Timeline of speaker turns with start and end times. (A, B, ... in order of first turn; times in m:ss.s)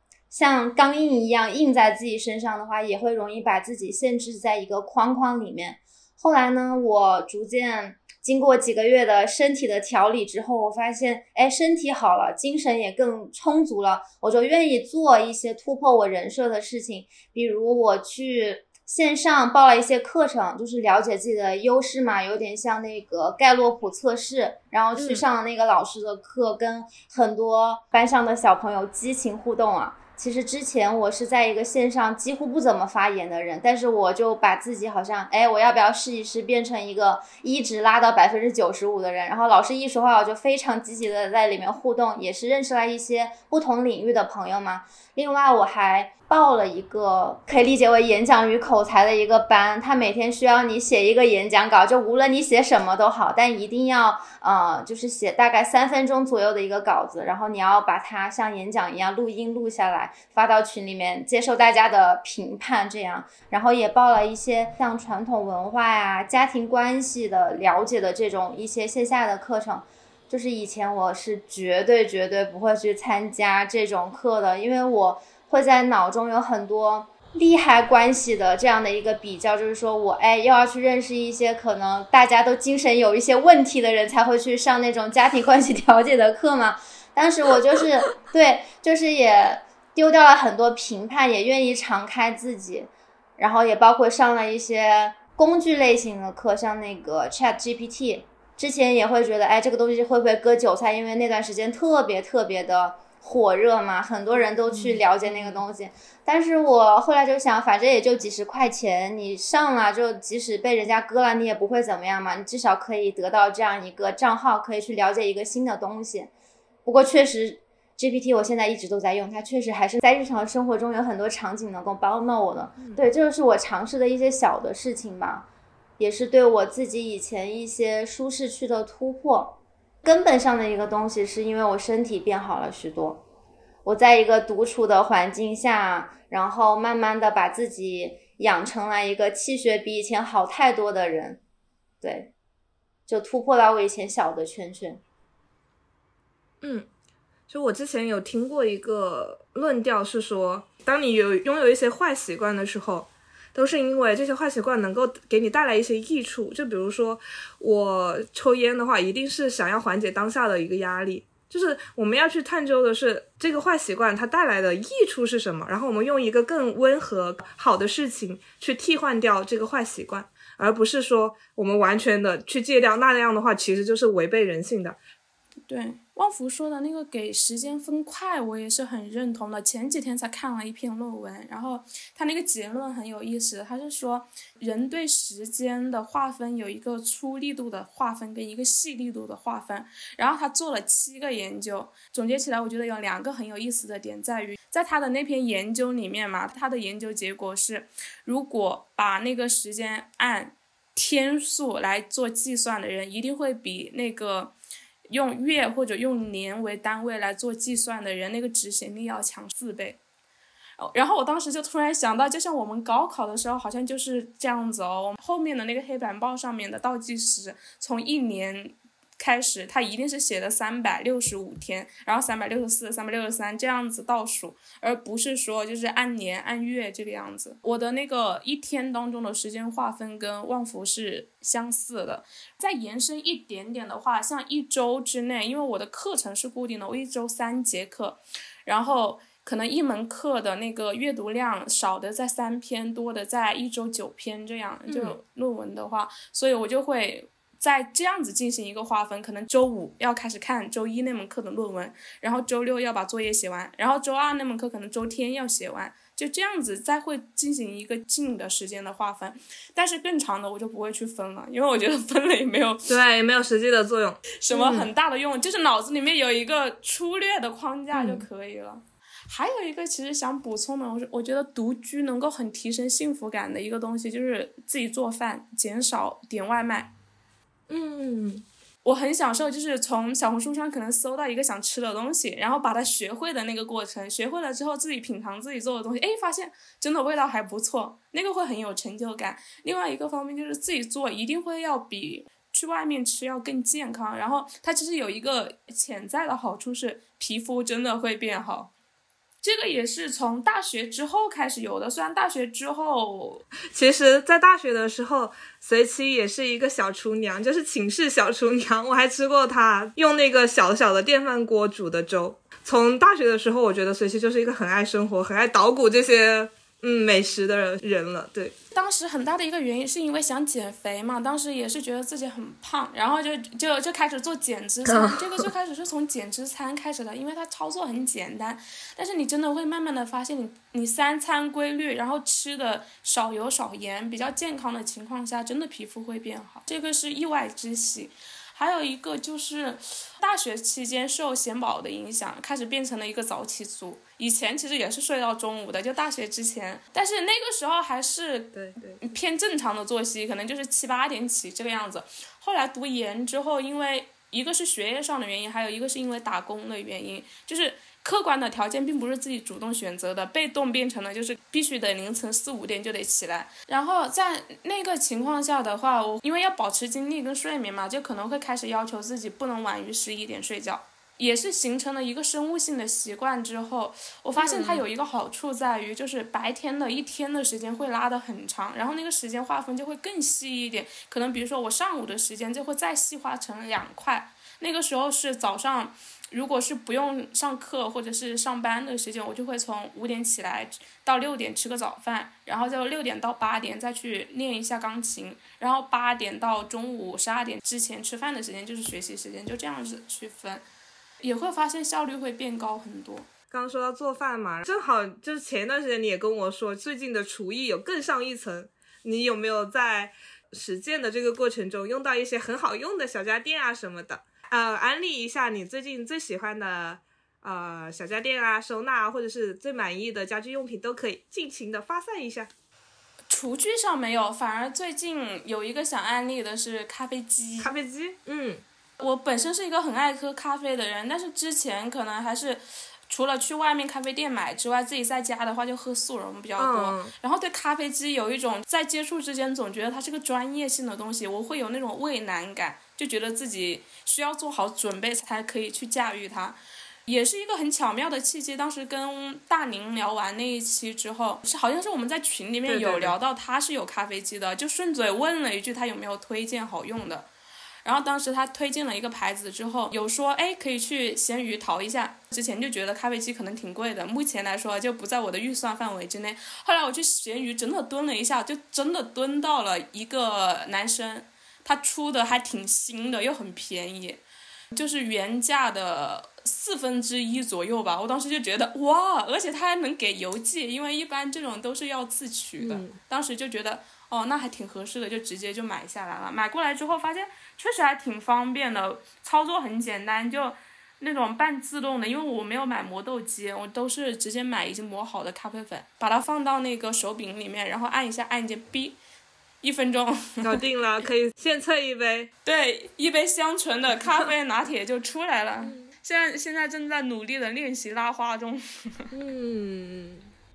0:00.3-1:56.3 A
0:25.0-0:25.2 B
1:44.7-1:45.6 B
1:56.8-2:05.5 A
2:06.0-2:13.2 A
2:13.8-2:21.4 A
2:22.0-2:22.3 A
2:23.1-2:25.0 A
2:26.6-2:26.9 B
2:27.5-2:55.0 B
2:55.7-3:24.5 C
3:25.1-3:30.0 C
3:30.8-4:22.9 C
4:04.9-4:05.2 B
4:22.9-4:24.9 B
4:24.4-4:36.9 C
4:27.9-4:28.3 B
4:37.7-4:38.4 B
4:38.8-4:58.7 C
4:59.4-5:03.4 C
5:03.7-5:18.6 B
5:18.7-6:40.6 C
5:24.9-5:25.5 B
5:48.5-5:49.1 B
6:14.4-6:14.8 B
6:41.2-6:43.3 C
6:43.5-7:02.5 B
7:03.3-7:07.7 C
7:07.6-7:08.6 B
7:09.0-7:26.6 C
7:16.6-7:17.1 B
7:27.1-7:37.3 C
7:32.7-7:33.2 B
7:37.8-8:19.0 C
8:02.6-8:03.0 B
8:19.6-8:20.6 C
8:20.4-8:22.3 B
8:22.4-8:29.1 C
8:29.1-8:30.2 B